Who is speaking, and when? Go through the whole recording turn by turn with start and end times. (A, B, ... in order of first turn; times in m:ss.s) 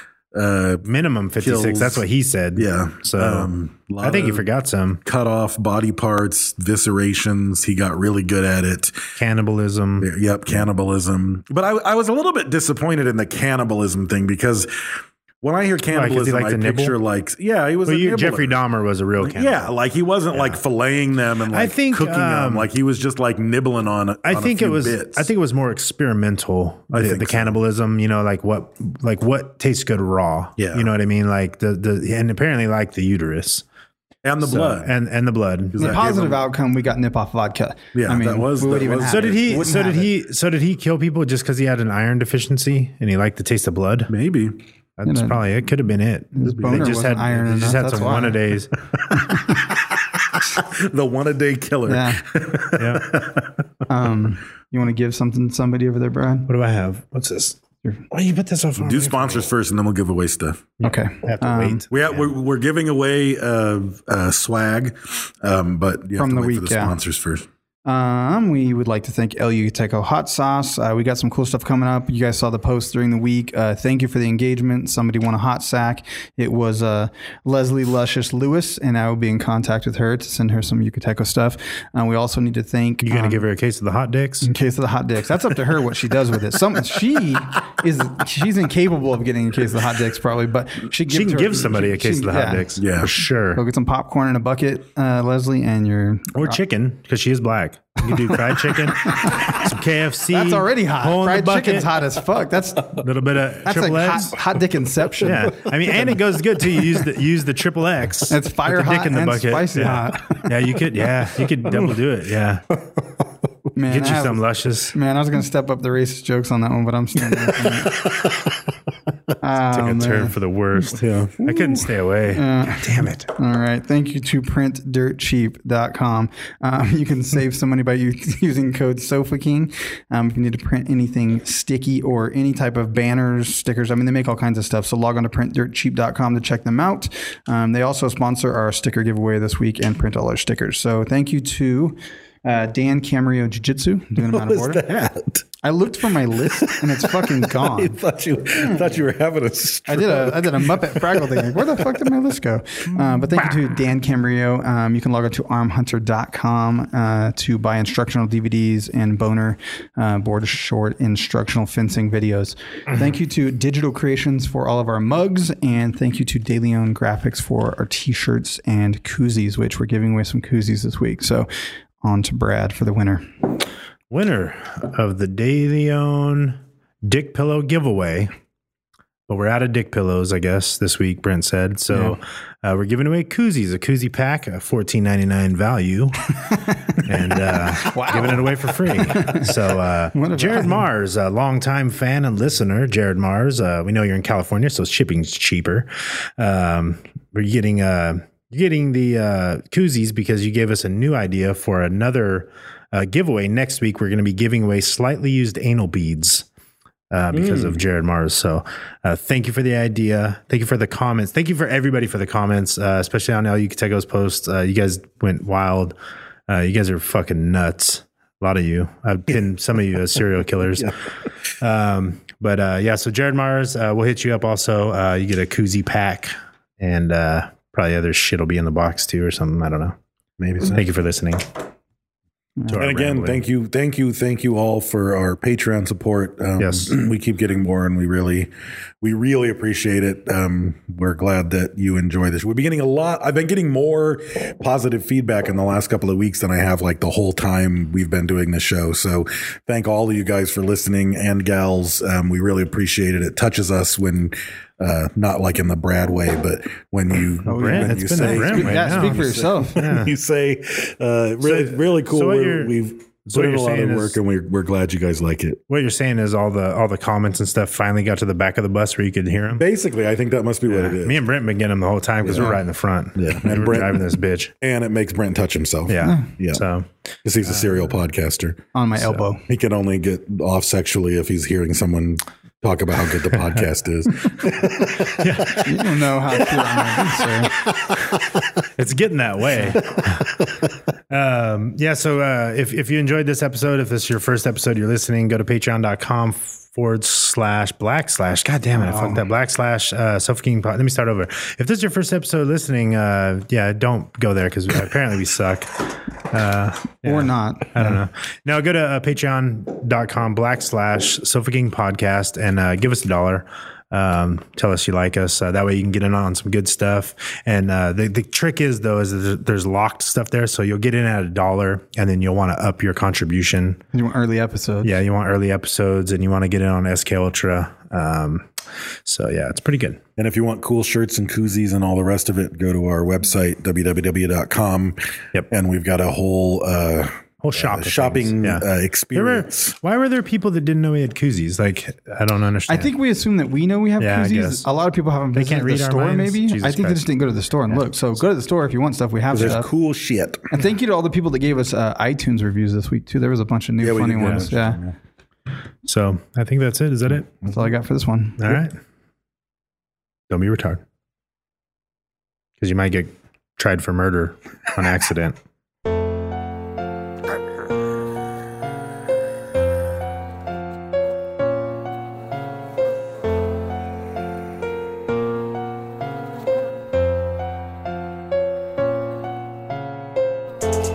0:00.3-0:00.9 A
0:00.8-0:03.5 B
0:01.4-0:02.0 A
0:02.6-0:04.5 A
0:04.0-0:05.0 B
0:05.0-0:09.0 A
0:09.2-0:10.1 B
0:10.0-0:14.7 A
0:15.4-0:18.6 A
0:15.9-0:17.0 B
0:17.9-0:19.7 B
0:19.2-0:25.3 A
0:20.3-0:20.6 B
0:21.5-0:22.7 B
0:24.2-0:33.6 B
0:26.9-0:27.6 A
0:30.6-0:30.9 A
0:34.2-0:34.9 A
0:34.4-0:36.0 B
0:35.7-0:36.4 A
0:35.8-0:40.0 C
0:37.9-0:40.1 A
0:39.1-0:44.1 B
0:44.1-0:44.6 A
0:45.0-0:48.8 B
0:45.1-0:45.4 C
0:46.4-0:48.4 C
0:49.5-0:53.6 A
0:51.9-0:52.2 C
0:52.8-0:53.1 B
0:53.9-0:56.5 C
0:56.5-0:57.6 B
0:58.1-0:59.5 B
0:58.8-1:00.7 A
1:00.8-1:01.8 C
1:00.8-1:02.3 B
1:01.9-1:07.5 A
1:06.2-1:07.0 C
1:07.8-1:23.4 C
1:23.0-1:24.5 B
1:24.4-1:32.6 C
1:31.1-1:33.6 B
1:32.8-1:33.1 A
1:33.6-1:36.6 C
1:36.3-1:41.9 B
1:38.1-1:39.7 C
1:40.3-1:43.0 C
1:43.0-1:44.4 B
1:43.6-1:45.5 C
1:45.2-1:52.6 B
1:48.3-1:50.5 C
1:51.6-1:52.0 A
1:53.8-1:58.0 C
1:53.9-1:55.0 B
1:59.4-2:00.3 C
1:59.6-2:03.3 B
2:01.0-2:01.4 A
2:02.3-2:24.8 C
2:24.2-2:25.4 A
2:25.6-2:28.0 C
2:26.6-2:32.1 A
2:28.6-2:28.9 C
2:29.9-2:51.5 C
2:52.0-2:53.3 C
2:54.1-2:58.3 B
2:59.3-3:26.5 B
3:01.9-3:02.2 C
3:06.5-3:09.5 C
3:10.1-3:10.8 C
3:27.1-3:35.9 B
3:27.3-3:27.8 A
3:36.5-3:40.9 B
3:40.6-3:40.9 A
3:41.6-3:50.0 B
3:50.4-3:50.9 A
3:50.6-3:51.5 B
3:52.7-3:53.4 B
3:52.8-3:58.5 A
3:56.6-3:56.9 B
3:59.0-4:25.6 A
4:17.5-4:19.8 C
4:17.5-4:20.1 B
4:21.4-4:22.8 B
4:23.3-4:24.2 B
4:25.7-4:29.6 B
4:29.5-4:31.2 A
4:30.7-4:34.5 B
4:32.2-4:32.6 A
4:33.2-4:36.6 A
4:35.9-4:36.9 B
4:37.2-4:38.6 A
4:37.4-4:37.8 B
4:38.7-4:39.4 C
4:39.5-4:45.7 A
4:44.4-4:45.7 B
4:45.6-4:47.5 C
4:46.4-4:48.5 A
4:48.6-4:50.4 B
4:50.0-4:50.6 A
4:51.1-5:23.8 B
4:58.7-4:59.2 C
5:07.0-5:08.0 C
5:23.9-5:24.9 C
5:24.8-5:28.5 B
5:29.0-5:30.0 B
5:30.2-5:39.8 A
5:37.4-5:42.9 B
5:42.7-5:49.7 C
5:44.0-5:44.7 B
5:45.3-5:47.1 B
5:49.3-5:50.4 A
5:50.5-5:54.8 C
5:53.8-5:54.9 A
5:55.8-5:57.5 B
5:57.5-5:58.6 C
5:58.4-5:58.8 B
6:00.3-6:00.8 B
6:02.6-6:05.4 B